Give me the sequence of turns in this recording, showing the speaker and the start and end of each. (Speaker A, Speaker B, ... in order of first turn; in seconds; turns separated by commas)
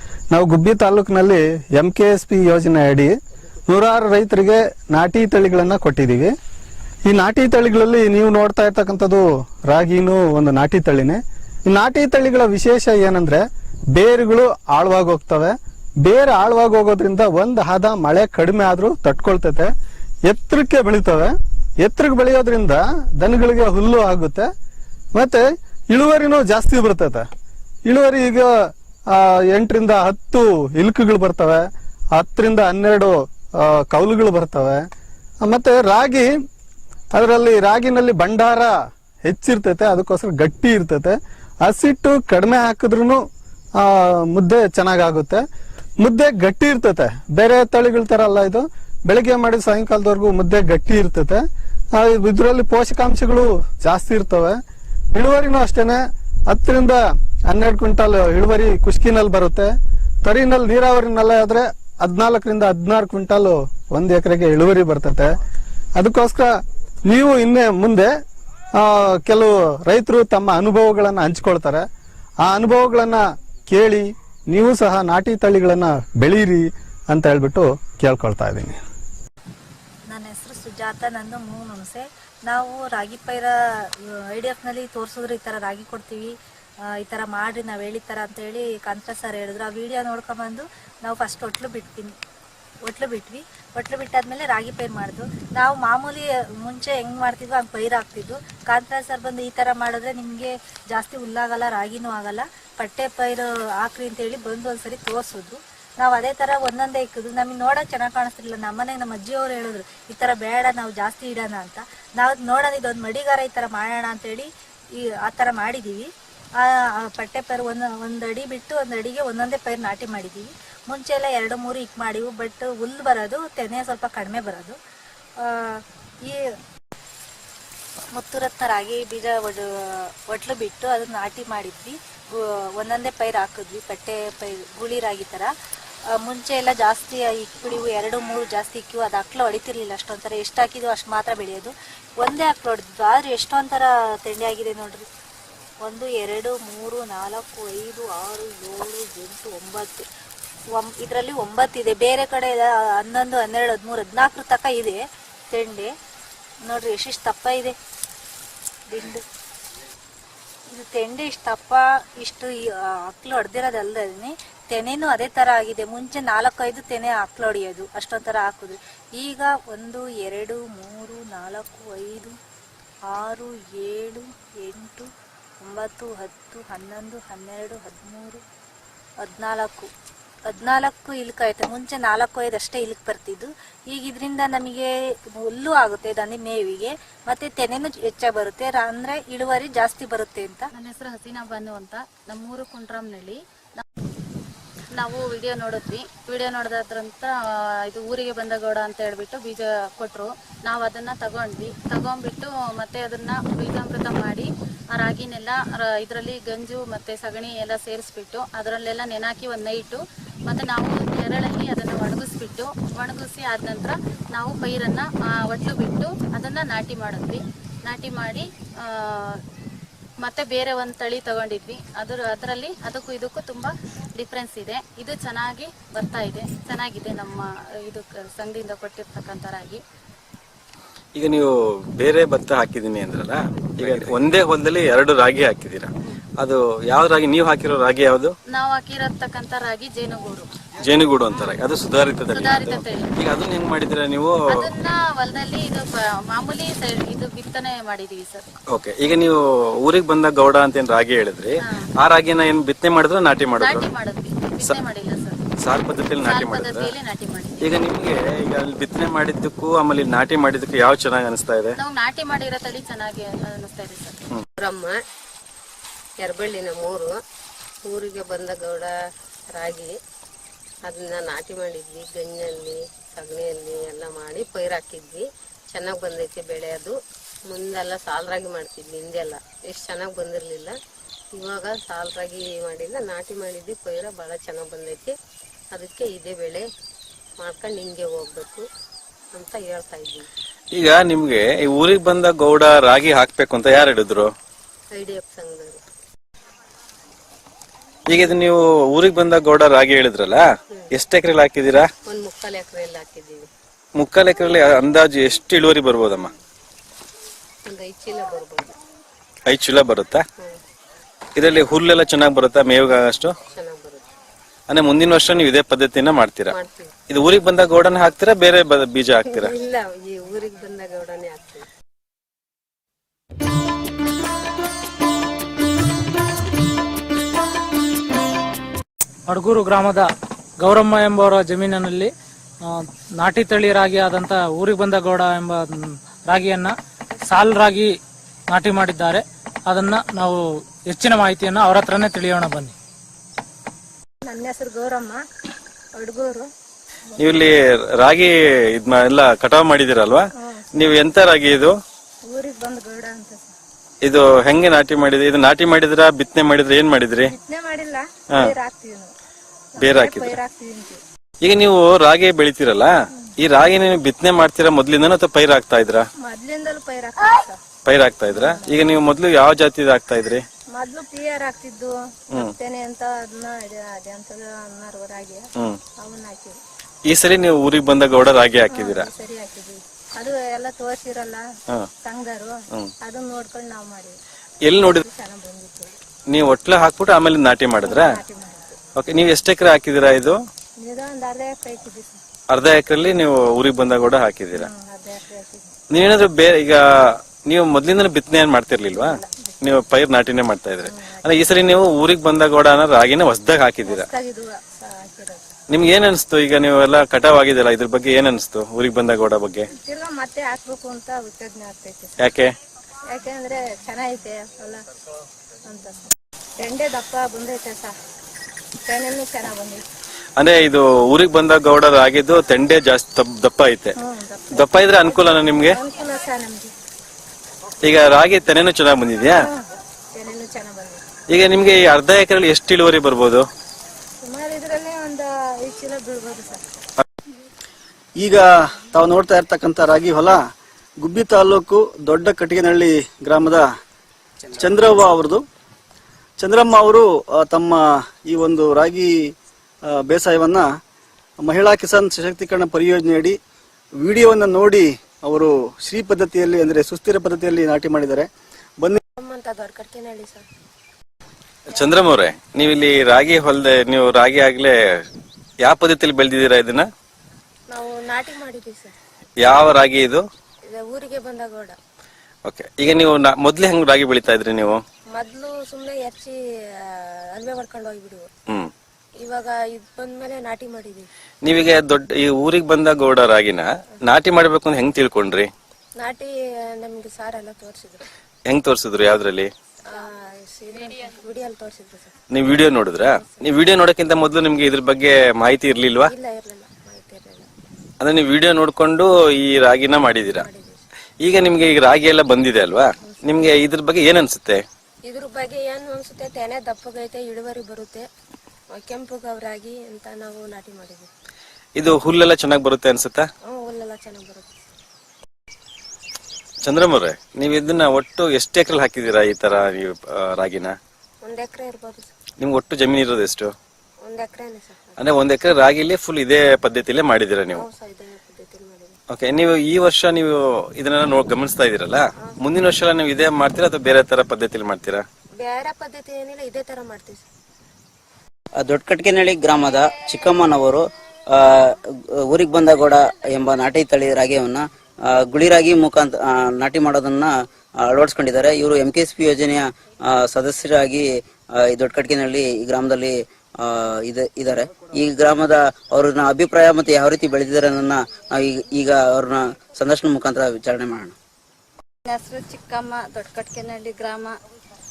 Speaker A: 0.3-3.1, Speaker A: 3.7-6.3, Speaker A: 7.1-13.4, Speaker A: 13.9-19.7, Speaker A: 20.3-24.5, Speaker A: 25.1-27.3, Speaker A: 27.9-28.5, Speaker A: 29.1-34.8, Speaker A: 35.4-36.3, Speaker A: 37.1-43.2, Speaker A: 43.8-45.4, Speaker A: 46.0-51.4, Speaker A: 52.0-54.6, Speaker A: 55.1-59.7, Speaker A: 60.2-65.3, Speaker A: 66.0-66.5, Speaker A: 67.1-68.1, Speaker A: 68.8-71.8, Speaker A: 72.4-78.8, Speaker B: 80.1-86.3, Speaker B: 86.9-92.2, Speaker B: 92.8-124.8, Speaker B: 125.4-126.5, Speaker B: 128.1-135.5, Speaker B: 136.2-145.1, Speaker B: 145.8-150.1, Speaker B: 150.7-155.9, Speaker B: 156.6-157.8, Speaker B: 158.9-159.2, Speaker B: 160.7-172.4, Speaker B: 173.1-175.1, Speaker B: 175.6-178.4, Speaker B: 179.2-179.9, Speaker B: 180.5-190.7, Speaker C: 190.7-193.8, Speaker C: 194.9-219.4, Speaker C: 220.2-229.8, Speaker D: 231.2-238.3, Speaker C: 238.5-240.5, Speaker D: 240.8-244.7, Speaker C: 242.3-243.2, Speaker C: 244.5-248.4, Speaker D: 248.7-253.9, Speaker C: 251.6-251.9, Speaker C: 253.6-255.5, Speaker D: 255.6-256.9, Speaker C: 256.2-257.7, Speaker D: 257.6-261.8, Speaker C: 261.8-264.2, Speaker E: 264.6-265.0, Speaker E: 266.2-267.2, Speaker E: 267.8-268.9, Speaker E: 269.5-269.9, Speaker E: 270.8-277.0, Speaker E: 277.5-280.7, Speaker E: 281.3-285.1, Speaker E: 285.7-286.7, Speaker E: 287.4-288.6, Speaker E: 289.3-290.3, Speaker D: 290.7-294.3, Speaker E: 294.9-295.8, Speaker D: 298.1-301.9, Speaker E: 302.1-303.5, Speaker D: 304.0-306.3, Speaker E: 307.6-308.8, Speaker D: 309.5-310.2, Speaker D: 311.4-313.4, Speaker E: 313.5-314.0, Speaker D: 314.7-316.6, Speaker E: 316.5-316.9, Speaker D: 317.1-319.5, Speaker E: 319.2-321.7, Speaker F: 329.3-332.1, Speaker F: 332.6-336.8, Speaker F: 337.3-338.0, Speaker F: 338.5-342.7, Speaker G: 344.2-345.2, Speaker G: 346.0-346.5, Speaker D: 347.2-351.8, Speaker G: 350.4-351.0, Speaker G: 352.3-353.5, Speaker D: 354.0-357.3, Speaker G: 357.2-359.1, Speaker D: 358.3-358.6, Speaker D: 359.8-360.4, Speaker G: 359.8-361.0, Speaker D: 361.4-366.1, Speaker G: 366.2-367.6, Speaker D: 367.9-370.4, Speaker G: 368.3-368.9, Speaker G: 370.7-376.6, Speaker D: 377.1-379.1, Speaker G: 378.7-381.4, Speaker G: 382.1-384.2, Speaker D: 384.6-385.0, Speaker G: 384.8-386.0, Speaker D: 386.3-388.2, Speaker G: 387.8-388.8, Speaker D: 389.0-390.4, Speaker G: 390.8-392.2, Speaker D: 392.5-394.7, Speaker G: 394.5-395.7, Speaker D: 395.9-404.1, Speaker G: 398.9-399.4, Speaker G: 400.8-401.3, Speaker G: 403.8-405.5, Speaker D: 405.7-409.7, Speaker G: 409.7-412.2, Speaker D: 412.2-412.5, Speaker G: 413.1-414.8, Speaker G: 415.6-417.9, Speaker G: 418.9-419.8, Speaker D: 420.4-423.9, Speaker G: 424.0-426.7, Speaker D: 424.5-425.8, Speaker D: 427.8-429.5, Speaker G: 430.1-431.0, Speaker D: 431.3-433.4, Speaker G: 434.2-436.6, Speaker H: 438.2-440.5, Speaker H: 441.0-443.7, Speaker H: 444.6-445.4, Speaker H: 446.4-450.7, Speaker H: 451.4-453.4, Speaker H: 454.0-458.3, Speaker G: 459.2-460.5, Speaker D: 461.7-464.8, Speaker D: 465.6-466.9, Speaker G: 467.7-468.9, Speaker D: 469.4-470.2, Speaker G: 470.7-471.8, Speaker D: 472.5-474.8, Speaker G: 475.1-478.3, Speaker G: 479.2-481.1, Speaker D: 481.4-485.5, Speaker G: 486.0-488.1, Speaker D: 488.5-489.5, Speaker G: 489.8-492.1, Speaker C: 490.7-491.2, Speaker D: 492.3-496.1, Speaker G: 493.2-493.5, Speaker G: 496.1-497.5, Speaker D: 498.0-500.5, Speaker G: 500.3-500.8, Speaker D: 501.2-504.6, Speaker G: 503.0-503.5, Speaker G: 505.1-508.1, Speaker G: 508.7-511.1, Speaker D: 511.8-513.3, Speaker G: 513.4-514.6, Speaker D: 516.6-520.8, Speaker G: 521.2-522.1, Speaker D: 522.4-523.5, Speaker G: 524.0-525.0, Speaker D: 525.0-527.7, Speaker G: 527.5-529.0, Speaker D: 529.1-535.0, Speaker G: 535.4-537.2, Speaker I: 538.6-561.1, Speaker J: 562.1-564.3